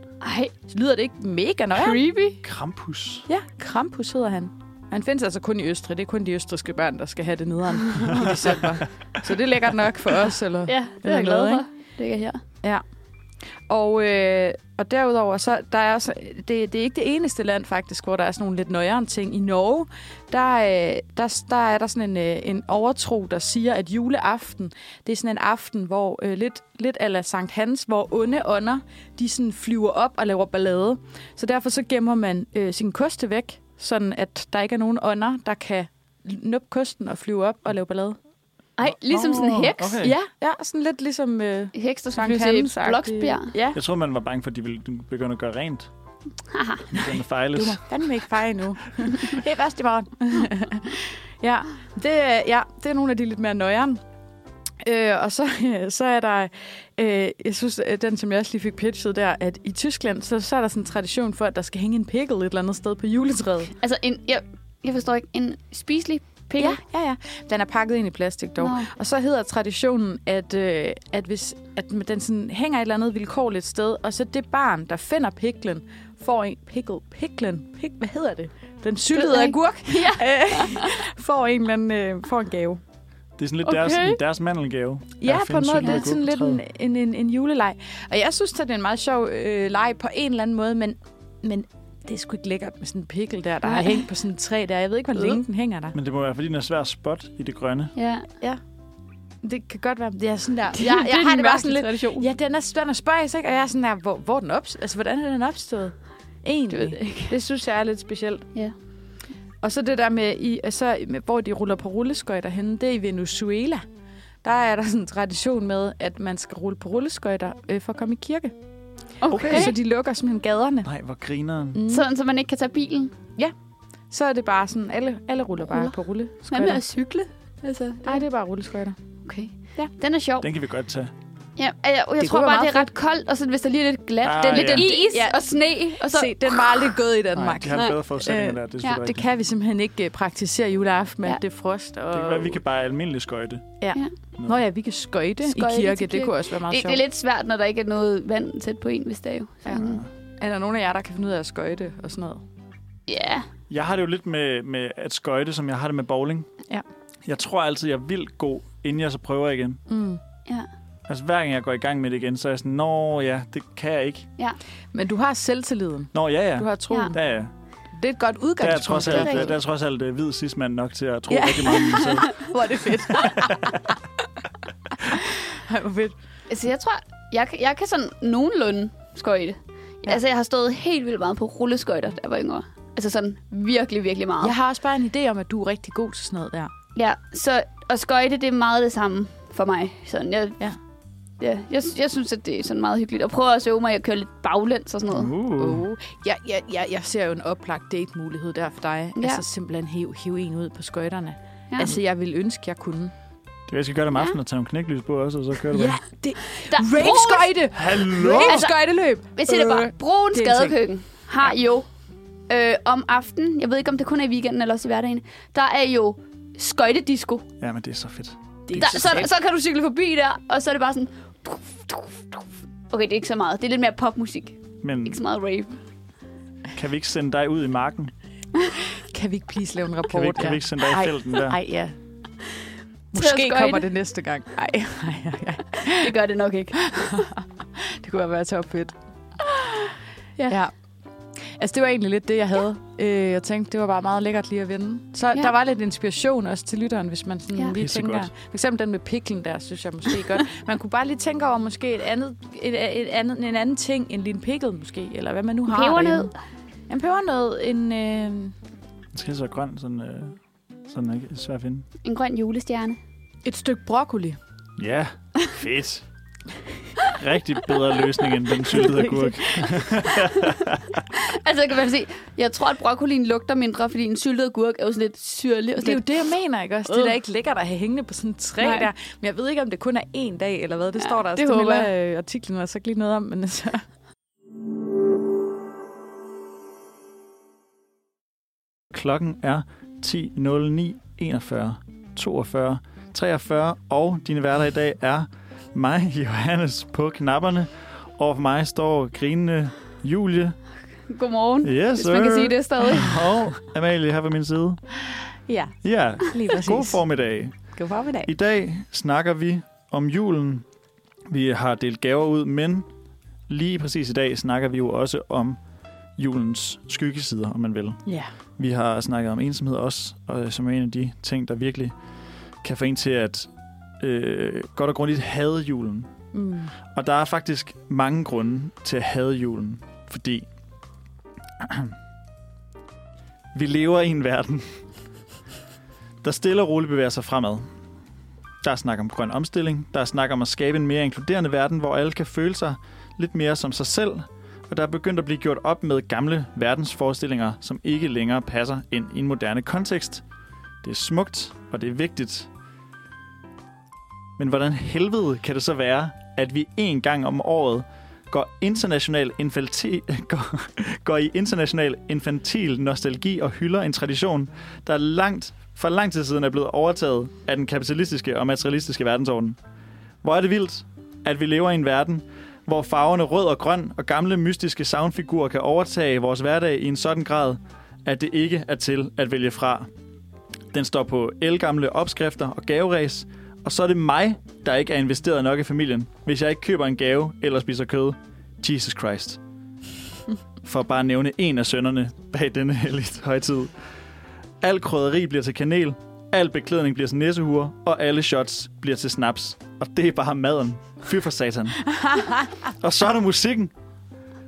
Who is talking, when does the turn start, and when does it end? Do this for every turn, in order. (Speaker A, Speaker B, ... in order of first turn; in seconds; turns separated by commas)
Speaker A: 0.2-0.5, Speaker B: 0.7-2.0, Speaker A: 1.7-2.4, Speaker C: 2.4-3.3, Speaker B: 3.3-11.6, Speaker C: 8.1-8.6, Speaker A: 10.7-12.4, Speaker B: 13.7-38.2, Speaker A: 38.8-40.1, Speaker C: 38.8-40.1, Speaker B: 40.0-43.8, Speaker A: 41.7-43.5, Speaker C: 43.7-45.9, Speaker A: 46.5-46.9, Speaker C: 46.9-47.8, Speaker B: 47.5-54.0, Speaker B: 54.8-63.7, Speaker A: 63.8-66.8, Speaker B: 66.6-82.8, Speaker A: 68.6-68.9, Speaker A: 79.1-80.9, Speaker C: 83.4-86.6, Speaker A: 83.7-84.1, Speaker B: 83.7-84.1, Speaker B: 85.2-95.9, Speaker A: 93.6-94.0, Speaker C: 95.9-97.9, Speaker A: 98.0-98.3, Speaker B: 99.4-108.5, Speaker A: 100.7-102.3, Speaker A: 106.7-107.3, Speaker B: 109.6-113.8, Speaker B: 114.4-118.5, Speaker A: 119.2-119.8, Speaker C: 119.3-119.8, Speaker B: 119.3-120.9, Speaker C: 120.8-121.8, Speaker B: 121.7-122.1, Speaker A: 121.9-123.1, Speaker B: 124.1-126.8, Speaker A: 125.7-125.9, Speaker A: 126.5-128.2, Speaker B: 128.1-129.0, Speaker A: 129.2-130.5, Speaker C: 130.4-131.1, Speaker A: 131.6-136.9, Speaker B: 132.2-132.9, Speaker C: 134.2-134.9, Speaker B: 134.4-135.4, Speaker B: 136.0-142.6, Speaker C: 137.3-139.2, Speaker A: 137.7-138.0, Speaker C: 142.1-143.7, Speaker B: 143.8-147.0, Speaker A: 145.4-150.0, Speaker B: 149.6-152.4, Speaker C: 149.7-150.1, Speaker A: 153.1-153.5, Speaker C: 153.7-156.5, Speaker C: 157.2-159.8, Speaker B: 159.9-160.2, Speaker C: 161.1-164.3, Speaker B: 164.9-167.2, Speaker C: 166.1-167.5, Speaker B: 167.9-169.5, Speaker C: 168.6-172.5, Speaker A: 169.1-169.5, Speaker B: 171.3-173.9, Speaker A: 171.9-172.4, Speaker C: 173.1-173.8, Speaker B: 175.0-176.1, Speaker A: 176.5-184.5, Speaker B: 184.4-186.7, Speaker A: 186.9-190.6, Speaker A: 191.4-195.3, Speaker C: 195.1-195.8, Speaker B: 195.6-203.1, Speaker A: 199.2-199.4, Speaker C: 203.7-206.0, Speaker B: 205.7-210.8, Speaker A: 206.6-207.5, Speaker C: 207.7-208.6, Speaker A: 208.4-208.8, Speaker A: 209.3-211.9, Speaker A: 212.5-217.4, Speaker C: 217.6-219.2, Speaker B: 218.7-219.3, Speaker A: 218.7-225.8, Speaker C: 224.8-225.2, Speaker C: 226.7-228.1, Speaker B: 229.0-231.9, Speaker C: 230.1-231.6, Speaker B: 233.1-236.1, Speaker A: 233.1-233.9, Speaker A: 235.8-237.3, Speaker B: 236.8-238.9, Speaker A: 239.5-239.8, Speaker B: 241.5-256.3, Speaker C: 247.8-248.3, Speaker A: 255.7-256.3, Speaker B: 256.9-258.5, Speaker C: 259.1-261.9, Speaker A: 262.0-263.0, Speaker B: 263.4-264.4, Speaker C: 264.8-266.0, Speaker C: 267.1-271.0, Speaker B: 268.7-269.8, Speaker A: 270.1-270.6, Speaker A: 271.1-276.1, Speaker B: 275.8-283.8, Speaker A: 276.9-277.1, Speaker A: 278.6-278.9, Speaker A: 281.0-281.9, Speaker C: 288.9-300.6, Speaker A: 301.1-303.2, Speaker C: 301.6-304.8, Speaker B: 305.5-307.0, Speaker C: 305.8-307.6, Speaker B: 307.7-308.3, Speaker C: 308.2-310.6, Speaker C: 311.3-312.9, Speaker C: 313.5-315.6, Speaker C: 316.2-318.0, Speaker C: 318.6-321.9, Speaker C: 322.6-323.5, Speaker C: 324.0-326.1, Speaker B: 326.3-326.7, Speaker C: 326.9-330.5, Speaker C: 331.6-331.9, Speaker C: 333.5-334.7, Speaker C: 336.2-337.6, Speaker C: 338.6-350.2, Speaker C: 350.8-352.5, Speaker C: 354.4-369.6, Speaker C: 370.2-379.9, Speaker C: 380.7-389.4, Speaker C: 390.6-393.7, Speaker C: 394.6-401.9, Speaker B: 402.0-402.5, Speaker C: 402.8-403.7